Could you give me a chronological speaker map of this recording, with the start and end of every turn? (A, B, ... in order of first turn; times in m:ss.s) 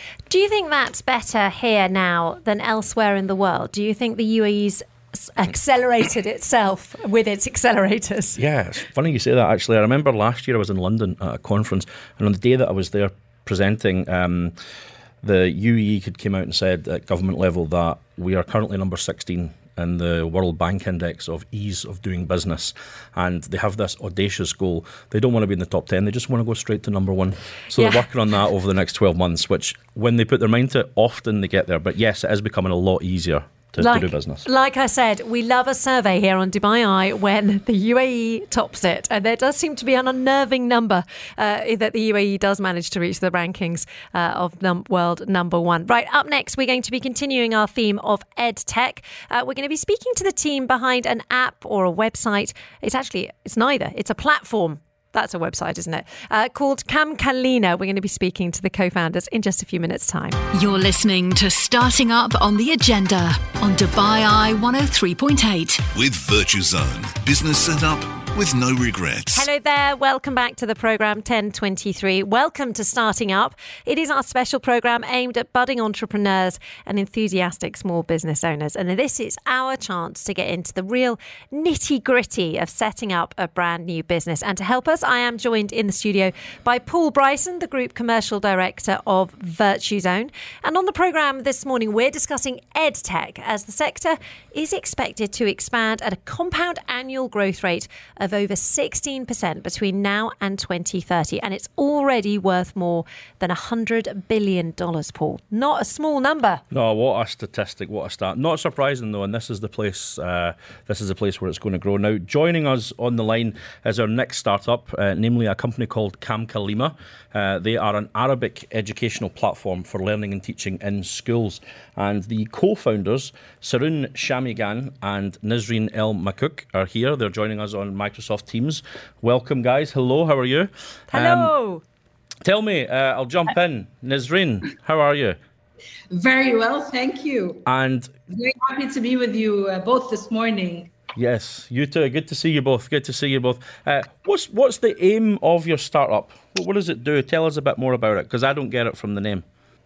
0:00.3-0:08.4 A
0:08.4-0:14.6 B
0:15.2-0:34.4 B
0:27.8-0:28.0 A
0:33.8-1:00.4 A
1:00.5-1:05.9 C
1:05.9-1:09.5 D
1:09.3-1:46.6 A
1:46.7-2:11.5 B
2:11.1-2:11.8 A
2:12.4-2:15.4 B
2:16.1-2:17.6 E
2:17.7-2:18.1 B
2:18.3-2:20.9 E
2:21.2-2:29.4 B